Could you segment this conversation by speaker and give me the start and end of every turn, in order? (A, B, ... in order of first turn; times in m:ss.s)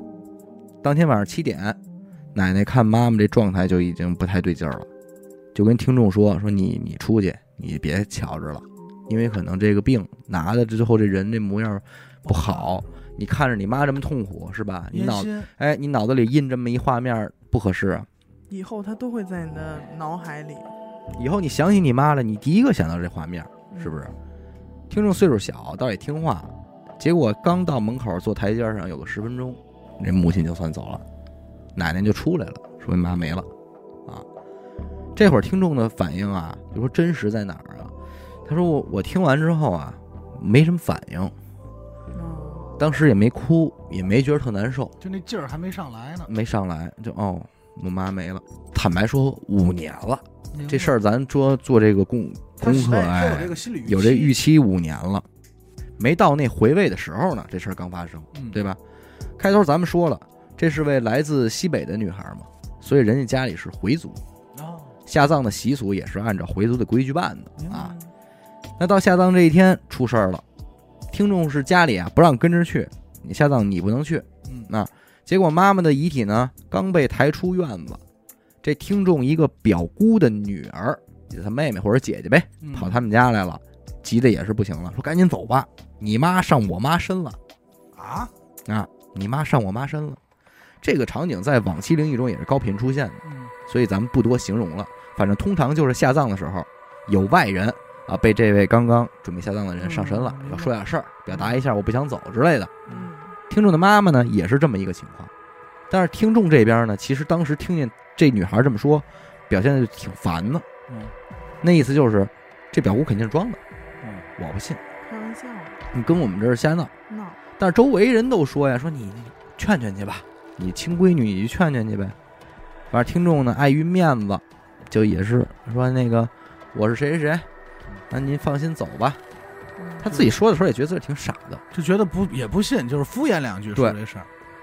0:00.8-0:01.8 A
0:02.3-0:04.9 A
0:05.5-0:18.1 A
0:12.2-0:12.8 B
0:14.9-0:15.5 B
0:18.5-0:20.7 C
0:21.1-0:24.1 A
0:24.9-0:31.0 A
0:31.7-0:33.5 A
0:35.1-0:37.9 A
0:38.4-0:41.3 A
0:42.1-0:42.7 C
0:42.8-0:44.9 A
0:45.0-0:46.3 B
0:46.3-0:55.2 A
0:50.5-0:50.9 B
0:52.6-0:54.4 B
0:56.0-0:58.8 A
0:58.3-0:58.6 B
0:59.4-1:04.2 A
1:04.5-1:05.0 B
1:05.0-1:07.9 A
1:07.6-1:08.0 B
1:08.8-1:10.4 A
1:11.1-1:18.0 A
1:14.4-1:14.7 B
1:18.6-1:27.4 A
1:22.6-1:23.0 B
1:27.9-1:28.3 B
1:28.6-1:30.2 A
1:30.8-1:42.7 A
1:33.2-1:33.5 B
1:39.8-1:40.7 B
1:42.9-1:43.3 C
1:43.5-1:45.3 A
1:45.9-1:50.6 A
1:50.9-1:51.1 B
1:51.6-1:53.6 A
1:54.0-1:54.3 B
1:54.4-1:54.8 A
1:55.0-1:55.8 C
1:55.9-1:56.9 A
1:57.1-1:57.4 C
1:57.6-2:02.2 A
2:02.9-2:07.5 A
2:08.1-2:09.2 A
2:09.8-2:10.0 C
2:10.0-2:11.6 A
2:10.1-2:10.3 B
2:11.7-2:14.3 B